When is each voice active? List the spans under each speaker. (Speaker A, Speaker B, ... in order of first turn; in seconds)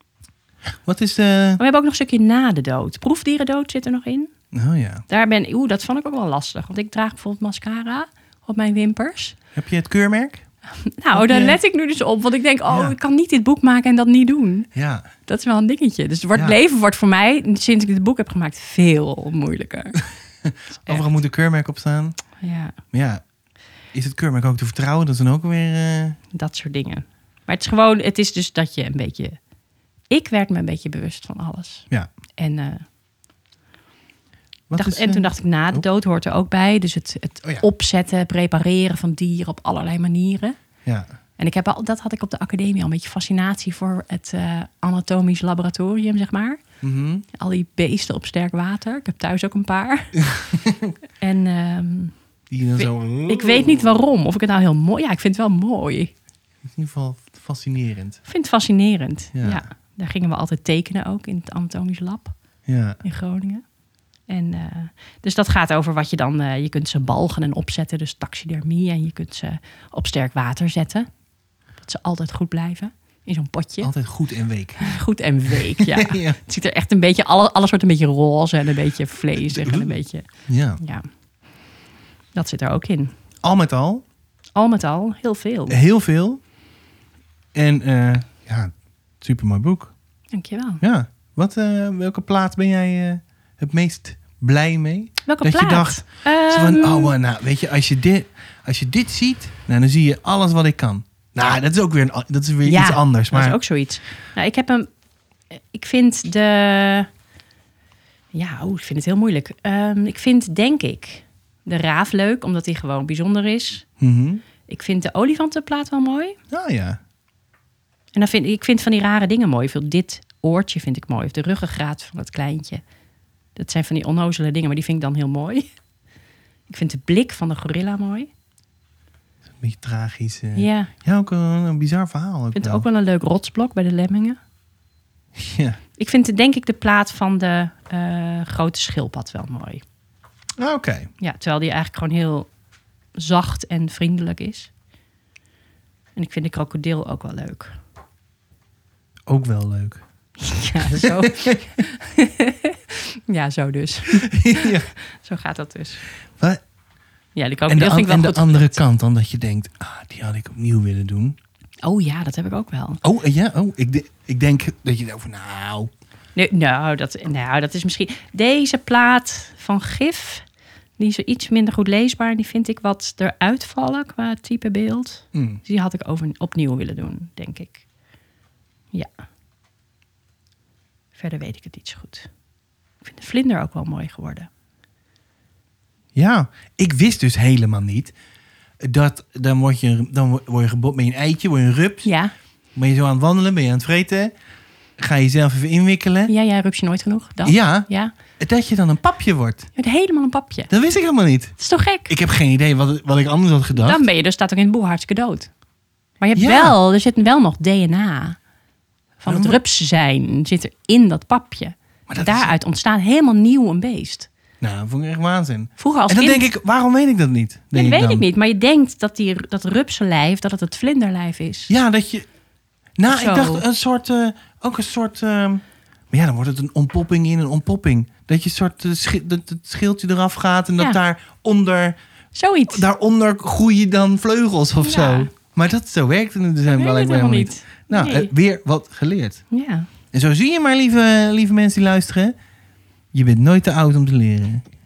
Speaker A: 0.8-1.6, 4.5-5.0, 9.6-10.4, 11.1-11.6, 12.7-12.9, 14.8-15.1, 20.4-22.2, 22.9-23.2, 23.9-26.2, 34.7-35.8, 46.8-47.2, 50.4-50.9, 52.5-53.9, 56.7-58.2, 59.4-59.6, 62.7-63.0, 73.8-74.9, 75.8-76.4, 79.5-80.8, 83.4-84.0, 85.7-86.4, 87.5-89.9, 90.8-103.6, 114.0-114.4, 116.5-117.0, 129.5-132.8, 135.3-135.8, 140.6-141.1, 149.3-150.0, 150.8-151.6, 154.1-154.9, 157.7-161.4, 163.0-165.9, 175.3-175.6, 186.2-188.1, 188.8-192.1, 192.8-194.3, 195.0-196.3, 197.4-199.7, 200.7-204.0, 206.3-206.8, 209.3-209.6, 212.1-212.5, 214.6-218.2, 221.7-222.3, 223.0-232.0, 232.7-239.4, 240.1-242.3, 243.1-244.7
Speaker B: 1.6-4.3, 5.1-9.4, 10.8-14.7, 15.2-20.0, 22.4-22.8, 26.3-29.4, 30.1-32.8, 34.8-40.6, 41.4-46.6, 47.3-50.2, 51.2-52.1, 52.8-56.1, 58.3-62.4, 63.0-63.6, 64.3-71.1, 71.8-73.9, 74.8-80.3, 80.8-81.1, 82.3-83.1, 84.6-85.8, 90.3-90.8, 95.3-97.1, 102.7-104.9, 105.5-107.1, 108.3-113.9, 114.7-116.4, 118.2-122.8, 123.5-125.7, 126.7-128.3, 130.6-130.9, 132.6-134.4, 136.0-139.8, 141.2-142.5, 143.2-144.7, 146.2-147.7, 150.4-156.0, 157.3-158.8, 161.8-163.0, 166.3-170.5, 171.0-177.8, 181.2-182.3, 183.0-184.5, 192.0-192.3, 196.3-198.1, 199.8-200.7, 201.6-202.1, 203.7-205.5, 206.2-208.4, 209.2-214.3, 215.8-216.5, 217.7-221.7, 223.1-223.6, 232.3-232.8, 234.8-235.3, 236.7-238.3, 239.5-239.9